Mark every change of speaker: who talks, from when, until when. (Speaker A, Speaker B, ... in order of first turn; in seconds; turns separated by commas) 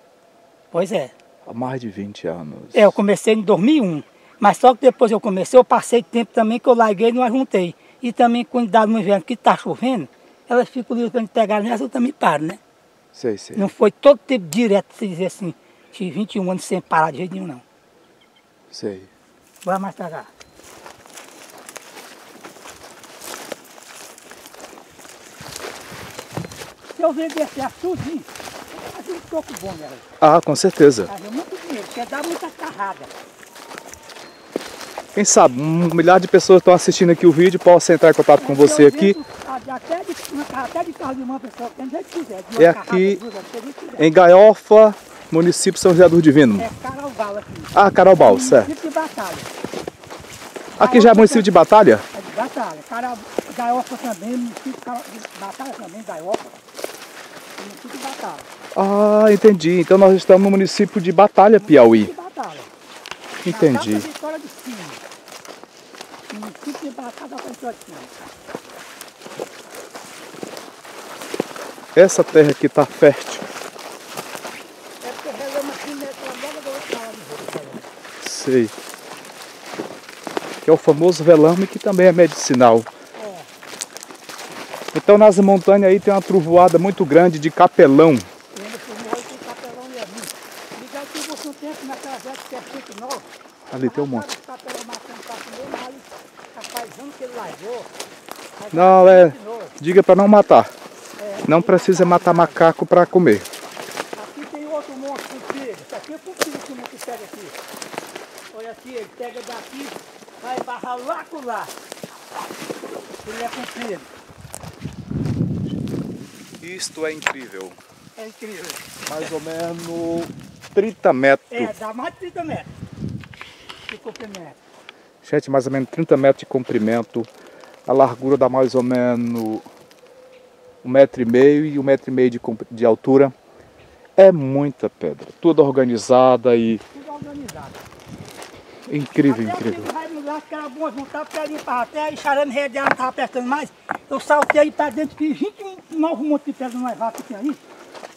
Speaker A: 0.7-1.1, Speaker B: 1.4-3.0, Speaker A: 2.7-12.6, Speaker B: 13.1-13.7, Speaker A: 13.6-17.6, Speaker B: 18.7-19.1, Speaker A: 19.6-20.3, Speaker A: 26.9-30.0, Speaker B: 30.2-31.1, Speaker A: 31.1-33.1, Speaker B: 35.1-39.2, Speaker A: 38.4-44.1, Speaker B: 42.6-43.2, Speaker B: 44.0-46.7, Speaker A: 46.6-49.5, Speaker B: 47.7-48.7, Speaker A: 50.7-51.5, Speaker B: 50.8-52.0, Speaker A: 52.1-56.5, Speaker A: 57.6-58.5, Speaker B: 58.8-62.1, Speaker A: 61.6-62.7, Speaker B: 63.4-64.0, Speaker A: 63.5-65.0, Speaker A: 66.3-68.1, Speaker B: 71.9-73.5, Speaker A: 75.0-77.9, Speaker B: 78.2-78.7, Speaker B: 80.6-82.9, Speaker A: 83.2-83.5, Speaker B: 84.9-88.3, Speaker A: 88.5-93.3, Speaker B: 93.7-94.2, Speaker A: 93.8-97.9, Speaker A: 98.6-99.8, Speaker B: 98.7-100.7, Speaker A: 101.2-102.6, Speaker B: 101.5-103.5, Speaker A: 104.2-107.5, Speaker A: 108.5-111.7, Speaker A: 113.2-114.1, Speaker B: 116.6-117.8, Speaker A: 118.2-118.9, Speaker B: 119.0-121.7, Speaker A: 121.5-122.7, Speaker A: 123.9-124.6, Speaker B: 125.2-127.3, Speaker B: 127.9-129.7, Speaker B: 130.8-133.3, Speaker B: 134.2-136.8, Speaker A: 136.9-137.8, Speaker B: 138.9-139.9, Speaker A: 139.2-147.6